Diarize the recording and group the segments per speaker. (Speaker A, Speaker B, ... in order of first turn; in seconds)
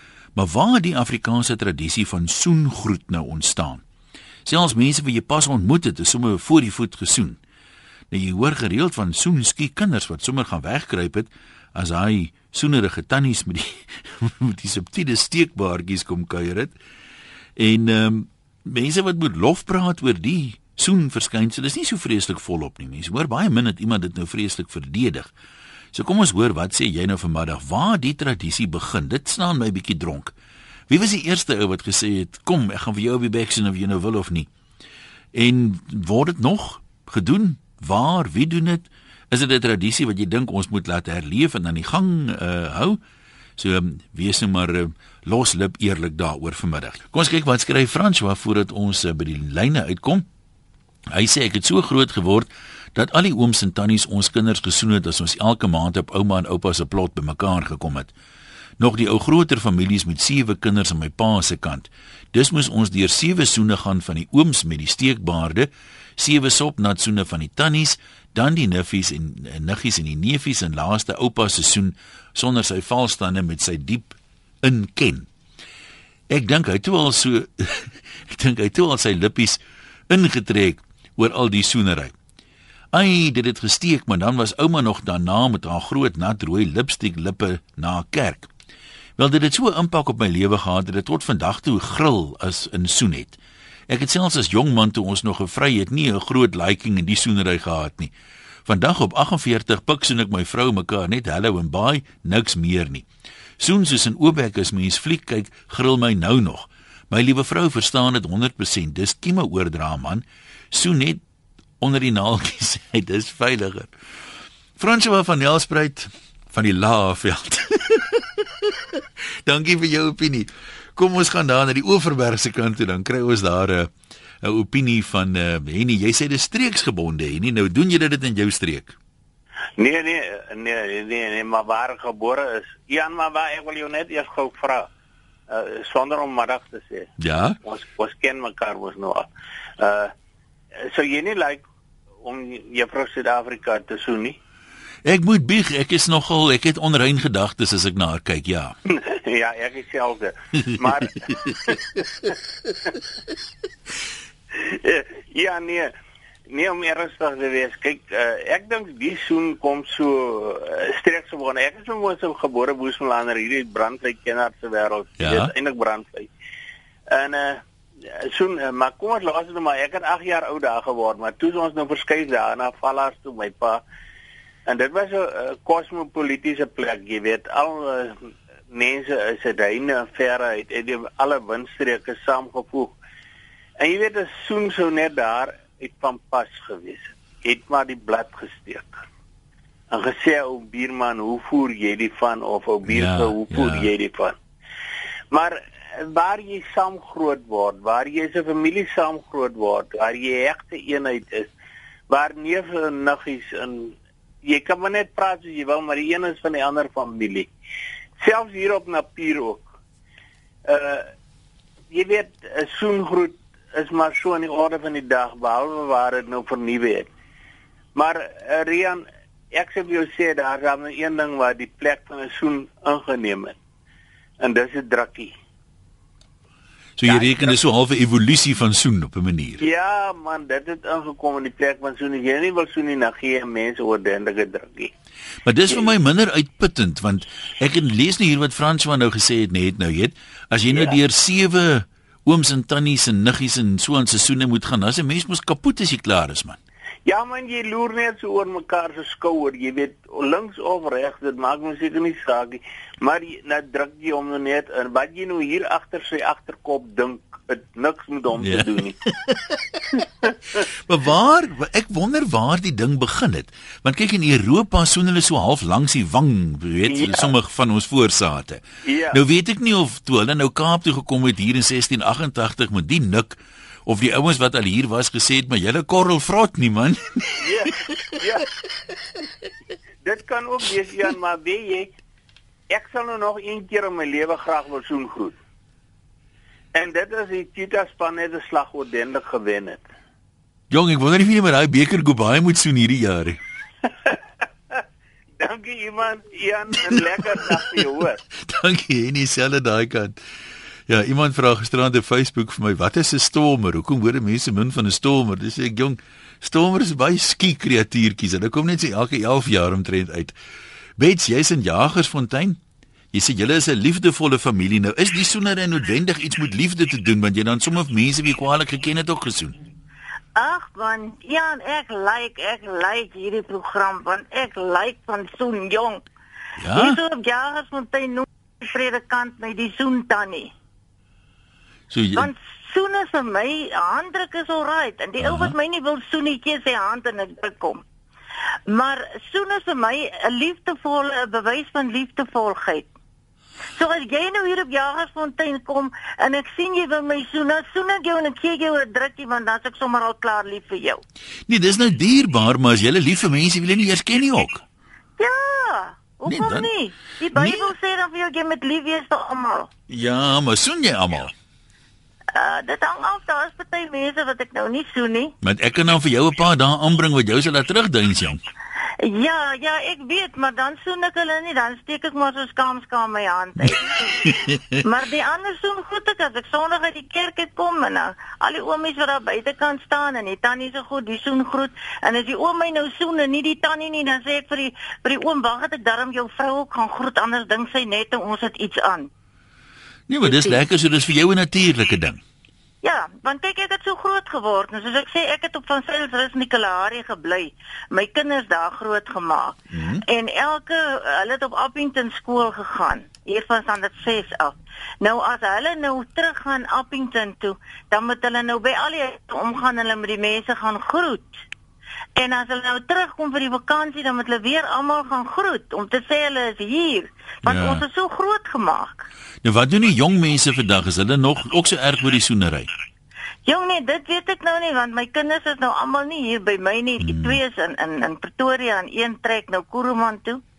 Speaker A: 0.4-3.8, 4.5-7.4, 8.1-16.8, 17.6-25.3, 25.9-30.3, 30.9-34.5, 35.3-43.0, 43.6-50.3, 51.1-58.1, 58.8-75.3, 76.3-82.1, 82.9-88.5, 89.2-98.1, 98.7-103.1, 103.6-111.2, 111.8-113.9, 114.8-123.9, 124.4-129.0, 137.2-137.6, 145.0-148.8, 165.2-165.5, 192.9-193.9, 227.0-229.6, 235.4-246.6, 258.4-259.8, 260.8-277.4, 290.7-293.4, 298.3-300.2, 300.9-310.3, 311.0-312.6, 313.1-319.6, 326.6-327.0, 331.9-332.3, 335.2-335.6, 351.5-354.6, 356.3-356.7, 357.4-357.7, 359.9-361.3, 365.4-368.4, 373.6-374.8, 390.1-392.2, 399.7-400.0, 417.4-417.8, 419.4-422.7, 427.0-427.4
Speaker B: 129.8-134.9, 135.5-137.1, 137.6-139.3, 139.8-140.1, 140.9-141.6, 142.2-144.4, 148.9-152.3, 154.5-155.9, 156.5-166.3, 167.1-167.6, 168.2-173.8, 174.7-178.2, 178.7-182.9, 183.8-189.0, 189.9-194.4, 195.3-201.5, 202.1-207.5, 208.2-209.7, 210.7-211.1, 211.9-217.1, 217.9-223.6, 224.4-225.3, 227.0-227.6, 229.6-234.9, 240.7-241.0, 247.1-259.0, 266.8-267.3, 268.8-269.2, 277.4-278.4, 280.0-281.9, 282.7-285.4, 286.7-289.8, 295.4-298.2
Speaker C: 320.4-326.0, 326.8-330.5, 332.1-337.8, 338.7-342.9, 343.8-351.0, 355.2-359.7, 362.3-365.3, 369.0-389.1, 390.2-390.6, 392.8-411.4, 412.1-419.1, 423.5-430.4